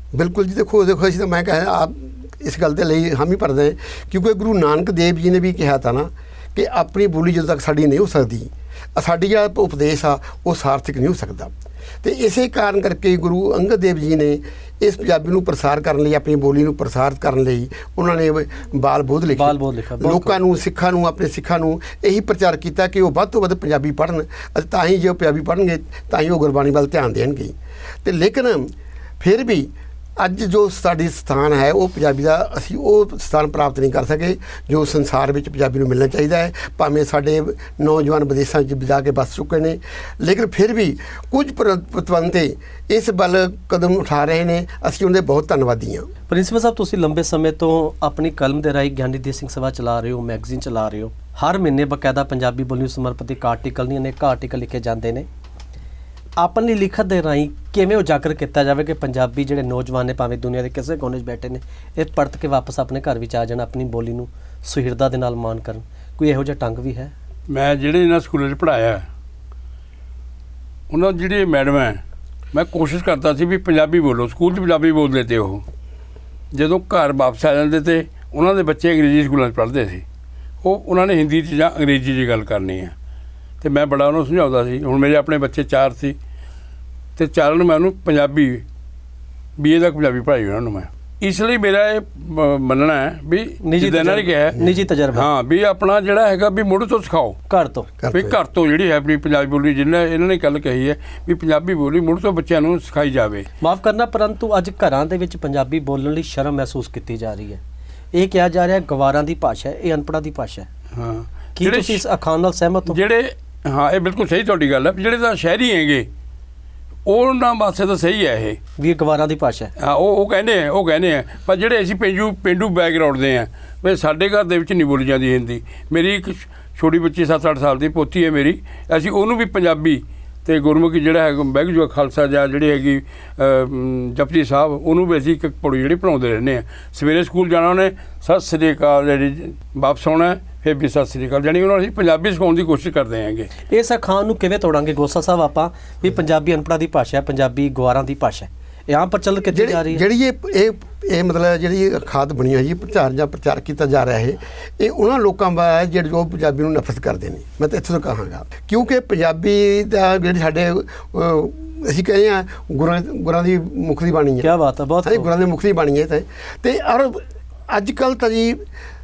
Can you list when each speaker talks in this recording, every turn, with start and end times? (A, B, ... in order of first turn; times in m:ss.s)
0:00.1-0:46.1 A
0:19.3-0:20.4 B
0:46.3-0:55.3 B
0:56.4-1:07.1 B
1:07.5-1:09.0 C
1:10.9-1:12.0 C
1:12.5-1:15.6 C
1:16.5-1:20.0 C
1:20.6-1:22.9 C
1:23.6-1:26.2 C
1:27.2-1:28.6 C
1:29.6-1:37.4 C
1:33.6-1:35.3 B
1:37.5-1:37.9 B
1:38.0-1:38.4 A
1:38.1-1:43.5 C
1:43.6-1:47.6 B
1:48.1-1:50.7 B
1:50.9-1:52.0 C
1:51.6-1:53.0 B
1:52.9-1:56.1 C
1:57.0-1:58.6 C
1:58.8-1:59.7 B
1:59.8-2:23.5 C
2:23.7-2:30.0 B
2:29.5-2:44.5 A
2:44.4-2:45.3 B
2:45.0-2:48.6 A